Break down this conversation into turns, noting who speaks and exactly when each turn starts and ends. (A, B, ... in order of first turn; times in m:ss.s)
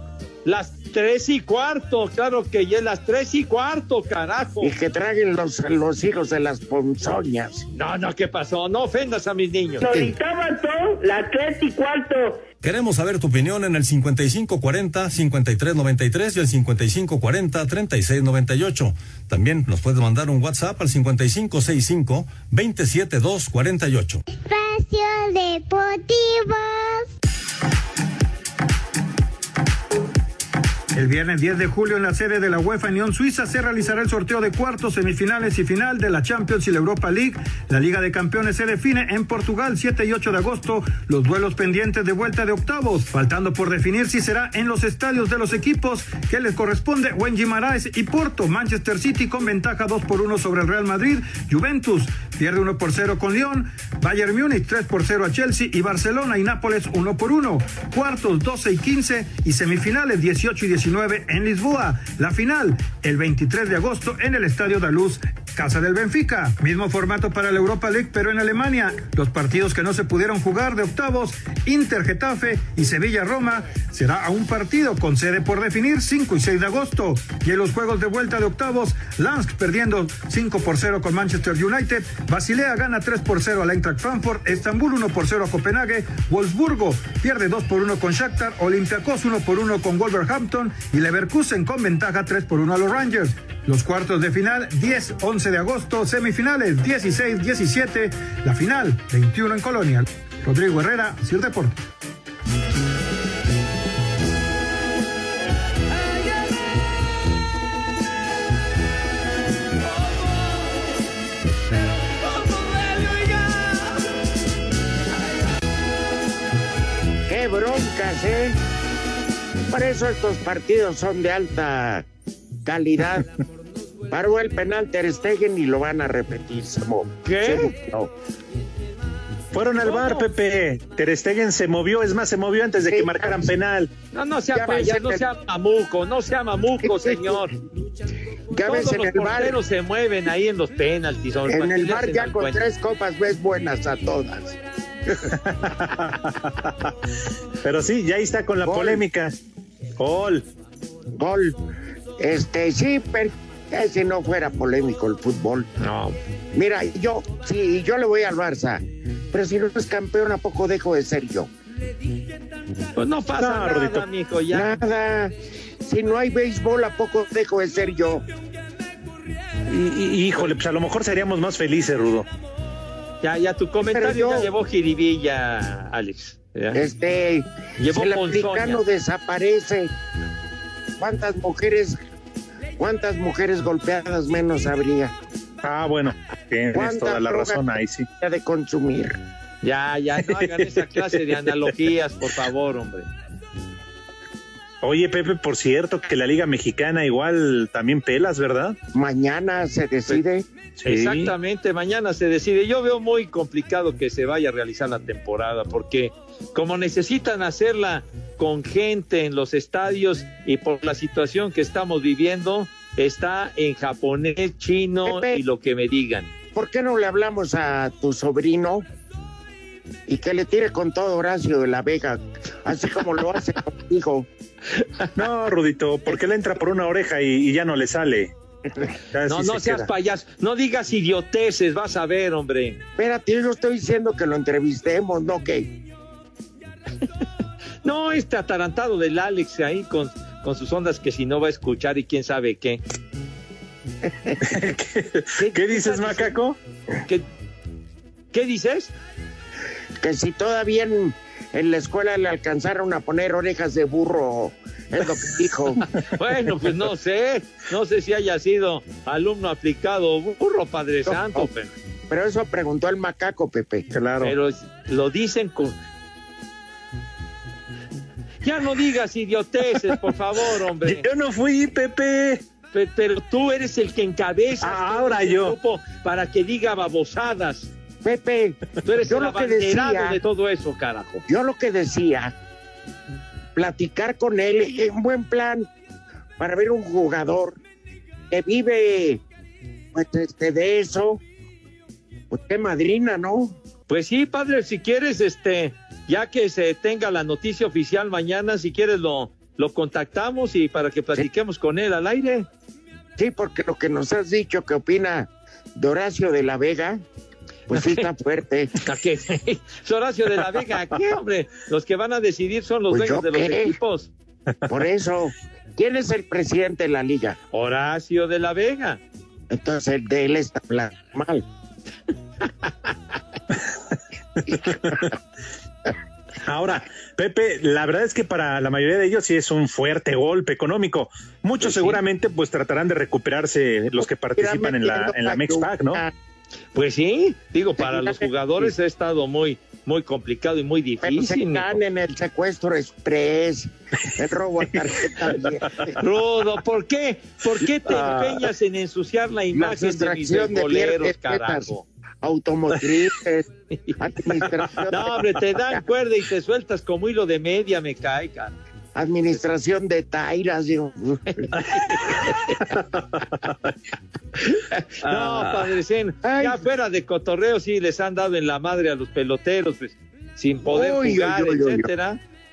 0:00.4-0:04.7 A
0:04.6-0:07.6 B
0:07.7-0:09.8 A
0:09.8-0:12.4 C
0:12.6-0:24.2 D
0:24.3-0:27.1 E
0:30.9-1:41.8 F
1:57.3-1:58.6 B
1:59.7-2:02.0 B
2:02.6-2:03.3 B
2:04.1-2:08.1 B
2:07.2-2:07.7 A
2:09.5-2:13.9 G
2:09.8-2:10.3 A
2:12.9-2:13.5 B
2:14.1-2:17.5 A
2:14.5-2:15.2 B
2:16.8-2:17.4 B
2:18.5-2:19.6 B
2:18.6-2:22.6 A
2:21.5-2:24.6 B
2:25.3-2:26.9 G
2:27.6-2:29.3 G
2:28.6-2:29.0 B
2:30.0-2:30.4 G
2:31.2-2:31.6 B
2:32.2-2:35.7 B
2:35.8-2:36.2 A
2:36.5-2:41.5 B
2:42.9-2:44.8 A
2:43.4-2:44.0 G
2:44.5-2:48.2 B
2:49.7-2:52.3 G
2:53.2-2:56.8 A
2:53.9-2:54.5 B
2:56.7-2:59.9 B
2:57.8-2:58.8 A
3:01.0-3:02.0 B
3:02.8-3:05.1 B
3:05.6-3:08.1 G
3:06.7-3:07.6 B
3:08.2-3:09.2 B
3:09.6-3:13.0 A
3:10.6-3:11.1 G
3:14.8-3:18.8 G
3:18.9-3:20.4 B
3:20.8-3:21.3 G
3:20.8-3:36.3 A
3:35.0-3:35.4 B
3:36.5-3:38.8 B
3:40.1-3:44.3 B
3:45.2-3:48.3 G
3:49.1-3:49.9 G
3:49.3-3:52.8 A
3:53.0-3:55.8 B
3:57.8-4:02.8 A
4:04.1-4:04.4 B
4:04.4-4:06.6 G
4:05.4-4:06.3 A
4:08.3-4:08.9 A
4:10.0-4:15.9 B
4:16.1-4:21.7 A
4:21.1-4:21.5 B
4:22.1-4:23.9 B
4:23.9-4:24.3 G
4:24.2-4:25.8 A
4:28.4-4:31.0 A
4:30.8-4:32.4 G
4:32.7-4:37.7 A
4:34.6-4:35.6 G
4:38.0-4:40.2 B
4:38.8-4:41.2 A
4:41.3-4:42.3 B
4:43.6-4:45.7 B
4:46.4-4:47.6 B
4:48.3-4:49.2 B
4:49.9-4:51.2 B
4:52.3-4:53.6 B
4:53.9-5:02.5 A
5:03.2-5:07.0 B
5:07.7-5:08.7 B
5:07.7-5:08.0 A
5:08.8-5:14.1 A
5:12.9-5:13.8 B
5:14.7-5:17.4 B
5:17.5-5:19.0 A
5:19.5-5:21.4 B
5:24.4-5:25.0 G
5:26.4-5:36.0 G
5:31.6-5:32.0 A
5:34.4-5:36.1 B
5:36.7-5:41.8 A
5:37.8-5:38.2 B
5:41.0-5:46.0 B
5:46.0-5:51.8 A
5:47.9-5:48.3 G
5:49.5-5:51.7 B
5:52.2-5:55.4 B
5:54.9-5:58.5 A
5:58.9-6:01.5 B
6:01.3-6:02.6 A
6:02.7-6:03.7 G
6:04.7-6:12.2 A
6:05.0-6:05.7 G
6:06.2-6:06.6 B
6:10.6-6:11.9 B